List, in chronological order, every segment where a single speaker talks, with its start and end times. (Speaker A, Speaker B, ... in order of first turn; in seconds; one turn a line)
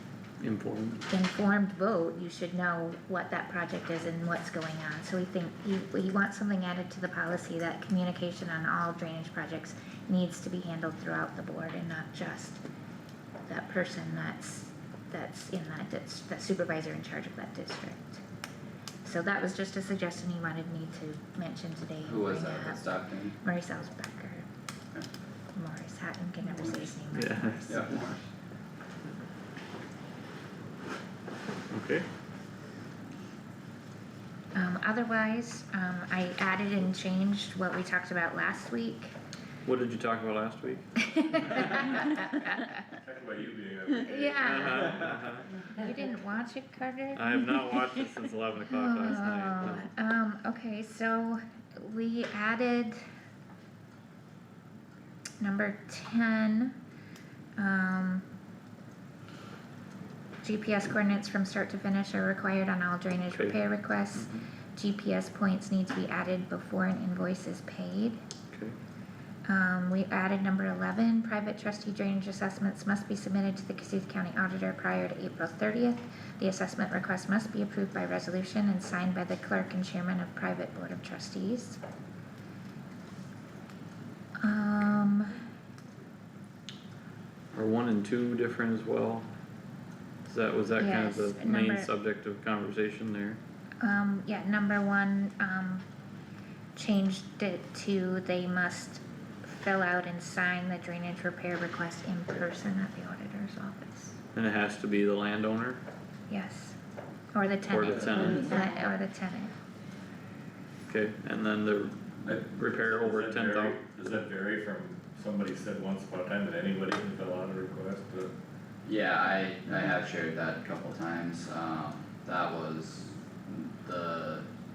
Speaker A: 0.4-1.0
Speaker B: 1.1-12.6
Speaker B: 13.5-18.2
Speaker B: 19.0-24.5
Speaker C: 22.1-23.4
Speaker B: 25.6-28.0
Speaker A: 27.1-27.9
Speaker C: 27.7-28.2
Speaker A: 31.7-32.1
Speaker B: 34.5-39.1
Speaker A: 39.6-41.9
Speaker B: 41.1-42.7
Speaker D: 43.0-45.3
Speaker B: 44.0-44.9
Speaker A: 44.4-45.4
Speaker B: 45.7-48.0
Speaker A: 47.1-49.9
Speaker B: 48.7-53.0
Speaker B: 55.4-56.8
Speaker B: 57.6-58.2
Speaker B: 60.4-68.2
Speaker A: 63.3-64.5
Speaker B: 69.5-81.8
Speaker B: 84.4-85.3
Speaker A: 87.5-89.3
Speaker A: 90.2-93.4
Speaker B: 90.8-91.9
Speaker B: 93.8-95.9
Speaker B: 96.8-104.2
Speaker A: 104.3-105.8
Speaker B: 106.3-106.8
Speaker B: 107.3-109.5
Speaker A: 107.7-108.6
Speaker A: 110.9-113.8
Speaker D: 112.2-118.3
Speaker C: 118.8-124.5